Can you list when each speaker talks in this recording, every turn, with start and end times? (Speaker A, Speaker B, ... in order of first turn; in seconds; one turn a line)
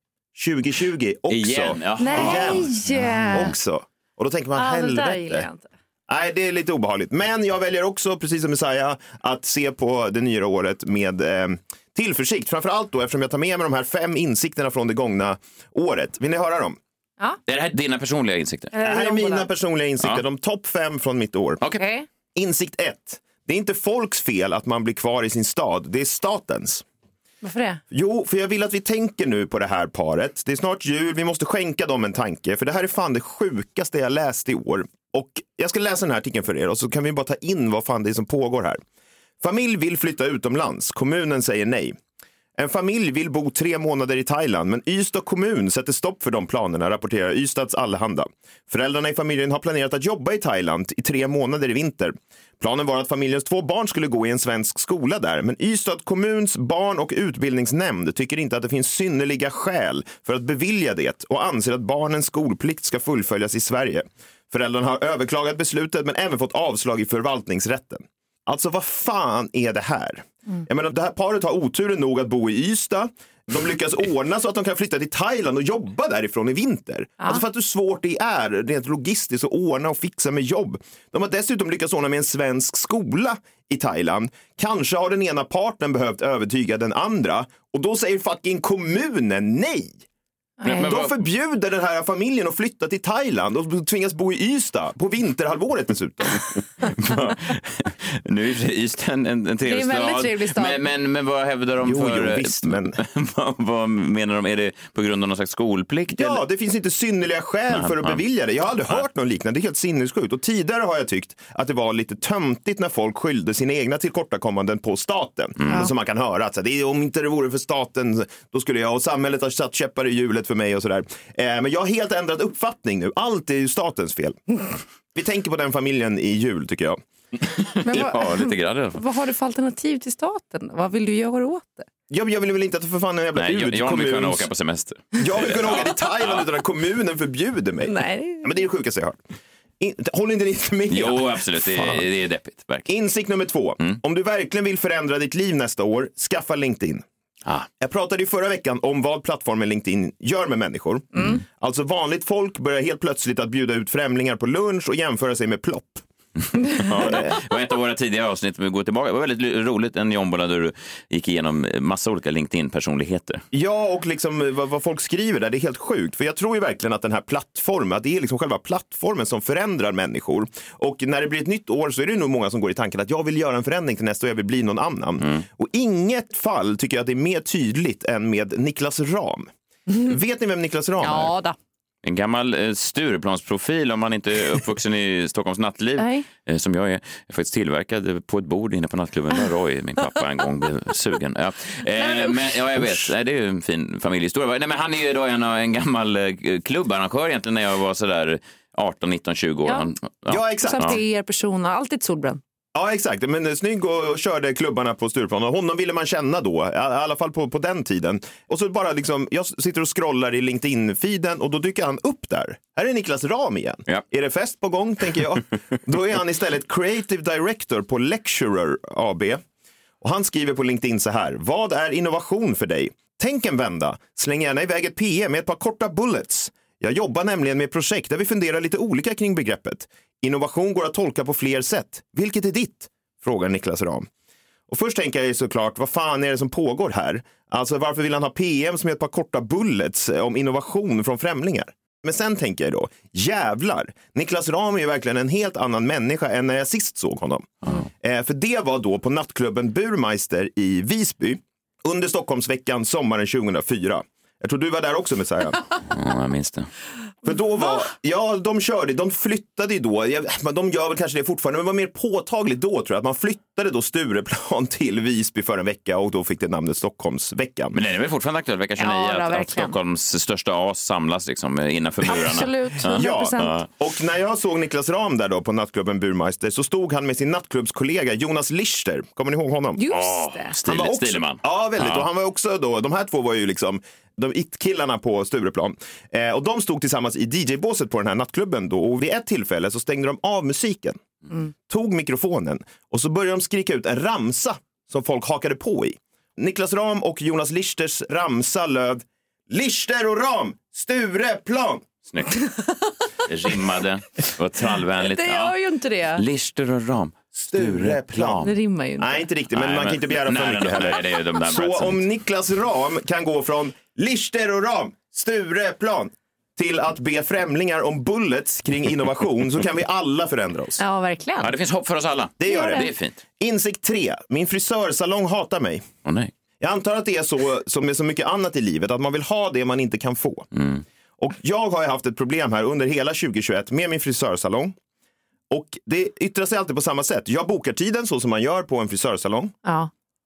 Speaker A: 0.3-2.8
Speaker B: 1.3-3.5
Speaker C: 2.0-3.5
Speaker A: 3.3-5.5
Speaker C: 4.5-5.7
Speaker A: 6.1-16.8
Speaker B: 17.5-18.7
Speaker C: 18.7-19.5
Speaker A: 18.8-21.6
Speaker C: 21.8-22.1
Speaker A: 22.4-26.8
Speaker C: 27.4-27.8
Speaker A: 27.9-38.8
Speaker A: 39.4-42.0
Speaker A: 42.6-90.0
Speaker C: 90.6-90.9
Speaker B: 90.6-91.2
Speaker A: 90.7-96.4
Speaker B: 96.8-106.4
Speaker C: 99.7-100.9
Speaker A: 101.8-103.0
Speaker A: 106.2-124.6
Speaker B: 107.7-108.2
Speaker A: 125.1-127.0
Speaker B: 127.4-129.0
Speaker C: 127.9-131.9
Speaker A: 132.1-134.5
Speaker B: 133.4-136.4
Speaker A: 135.2-139.2
Speaker C: 137.9-138.5
Speaker A: 139.8-142.0
Speaker B: 140.9-142.9
Speaker A: 142.9-147.0
Speaker A: 147.8-156.0
Speaker B: 156.5-163.4
Speaker A: 156.9-157.4
Speaker A: 163.5-181.3
Speaker B: 175.2-175.4
Speaker C: 179.9-180.1
Speaker C: 181.0-181.6
Speaker B: 182.0-201.0
Speaker C: 186.0-186.2
Speaker C: 191.9-192.9
Speaker A: 200.3-201.0
Speaker C: 200.6-202.4
Speaker A: 202.7-219.4
Speaker A: 220.0-234.1
Speaker A: 234.7-255.6
Speaker B: 247.6-247.9
Speaker B: 255.8-256.7
Speaker A: 257.2-267.8
Speaker B: 267.7-273.6
Speaker C: 268.8-269.7
Speaker C: 272.0-273.6
Speaker A: 272.9-279.8
Speaker C: 279.8-280.5
Speaker B: 279.9-282.1
Speaker A: 280.6-291.0
Speaker A: 291.7-301.9
Speaker B: 302.1-302.4
Speaker B: 303.3-305.5
Speaker C: 304.9-306.2
Speaker B: 306.1-308.5
Speaker A: 307.4-308.4
Speaker C: 308.4-309.3
Speaker A: 309.0-320.8
Speaker B: 309.5-312.0
Speaker C: 320.8-321.5
Speaker B: 321.4-323.2
Speaker A: 322.4-325.8
Speaker C: 322.4-322.9
Speaker B: 326.0-326.3
Speaker A: 326.6-330.5
Speaker B: 330.5-330.8
Speaker A: 331.2-334.7
Speaker A: 335.5-339.6
Speaker C: 339.6-339.9